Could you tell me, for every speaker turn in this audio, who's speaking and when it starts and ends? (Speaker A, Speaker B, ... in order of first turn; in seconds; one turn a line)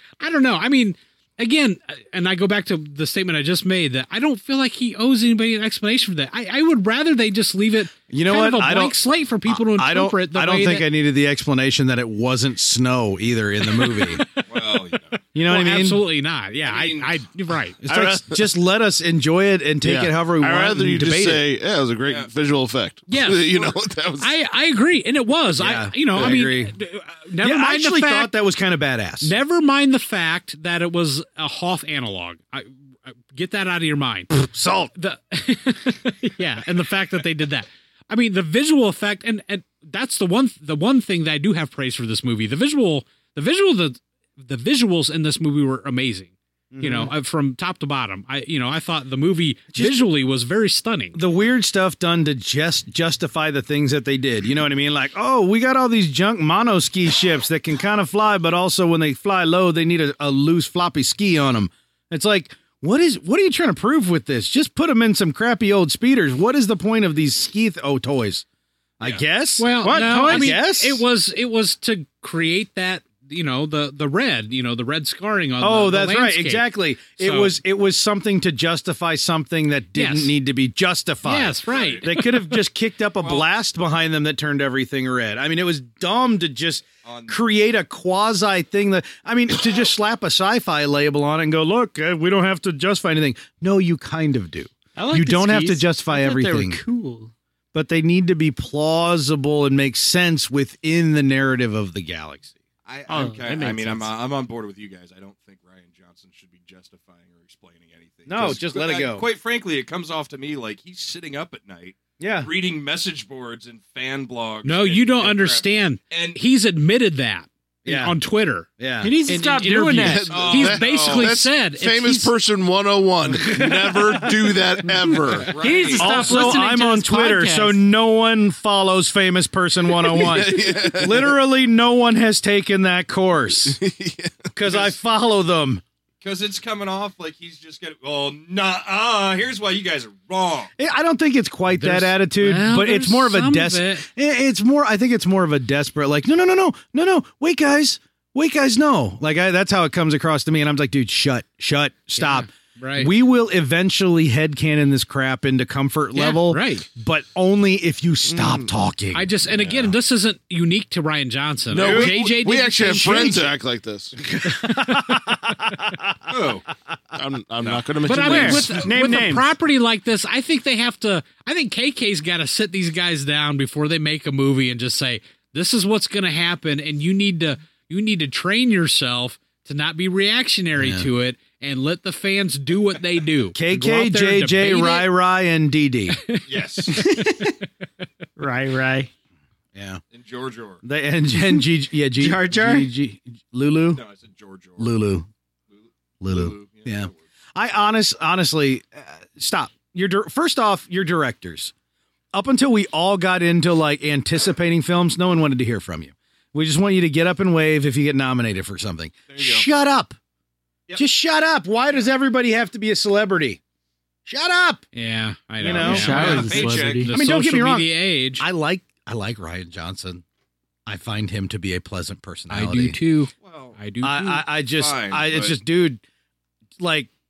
Speaker A: 0.2-10.9
Speaker B: 8.1-8.9
Speaker B: 9.5-14.2
Speaker A: 13.6-14.8
Speaker C: 14.5-15.2
Speaker B: 15.3-16.0
Speaker A: 15.4-18.1
Speaker C: 16.6-17.2
Speaker B: 17.8-21.4
Speaker D: 19.8-24.3
Speaker C: 22.0-22.3
Speaker A: 23.1-28.3
Speaker B: 25.6-26.7
Speaker B: 27.4-29.3
Speaker A: 29.2-34.4
Speaker B: 34.3-34.9
Speaker A: 35.0-51.2
Speaker B: 46.7-47.1
Speaker B: 51.1-68.4
Speaker B: 69.0-71.0
Speaker A: 69.6-77.5
Speaker E: 69.9-70.6
Speaker B: 75.6-96.8
Speaker A: 79.9-80.3
Speaker A: 81.2-82.6
Speaker C: 81.7-82.1
Speaker C: 83.2-83.5
Speaker C: 87.0-87.4
Speaker E: 95.0-97.3
Speaker B: 97.7-102.5
Speaker C: 102.8-116.4
Speaker E: 103.1-104.1
Speaker B: 108.3-109.2
Speaker B: 112.2-112.5
Speaker A: 114.6-118.7
Speaker B: 117.8-118.1
Speaker B: 118.8-119.1
Speaker E: 119.0-120.3
Speaker A: 119.3-122.3
Speaker D: 120.0-125.6
Speaker C: 120.3-121.3
Speaker C: 125.2-126.5
Speaker E: 125.6-127.8
Speaker B: 126.0-133.8
Speaker D: 129.9-131.3
Speaker D: 133.7-134.5
Speaker B: 134.5-135.8
Speaker C: 134.7-134.9
Speaker C: 136.2-140.7
Speaker B: 140.8-159.3
Speaker A: 141.7-144.1
Speaker A: 152.2-153.1
Speaker A: 156.1-156.8
Speaker D: 158.3-158.7
Speaker A: 159.1-163.5
Speaker D: 159.5-159.9
Speaker D: 161.7-164.1
Speaker B: 161.8-162.1
Speaker B: 163.0-163.4
Speaker B: 164.2-166.4
Speaker A: 164.7-165.0
Speaker C: 166.3-166.7
Speaker D: 167.1-168.9
Speaker C: 167.6-167.9
Speaker A: 168.0-185.1
Speaker E: 168.1-169.5
Speaker B: 180.8-181.1
Speaker B: 183.5-186.2
Speaker A: 186.1-186.4
Speaker C: 186.4-187.1
Speaker E: 186.9-187.5
Speaker E: 188.4-189.1
Speaker B: 189.7-190.0
Speaker C: 190.1-190.8
Speaker B: 190.8-194.0
Speaker E: 192.2-192.9
Speaker C: 193.9-194.9
Speaker B: 194.8-195.3
Speaker C: 195.7-197.2
Speaker B: 196.2-201.7
Speaker B: 202.3-210.2
Speaker C: 209.3-209.6
Speaker B: 210.9-213.6
Speaker B: 214.2-214.8
Speaker A: 214.9-218.4
Speaker B: 215.6-216.5
Speaker C: 215.7-217.2
Speaker E: 215.8-217.1
Speaker B: 217.1-220.2
Speaker B: 220.8-223.0
Speaker A: 222.5-224.4
Speaker C: 223.4-223.8
Speaker B: 224.0-226.0
Speaker C: 224.7-225.6
Speaker B: 226.8-227.1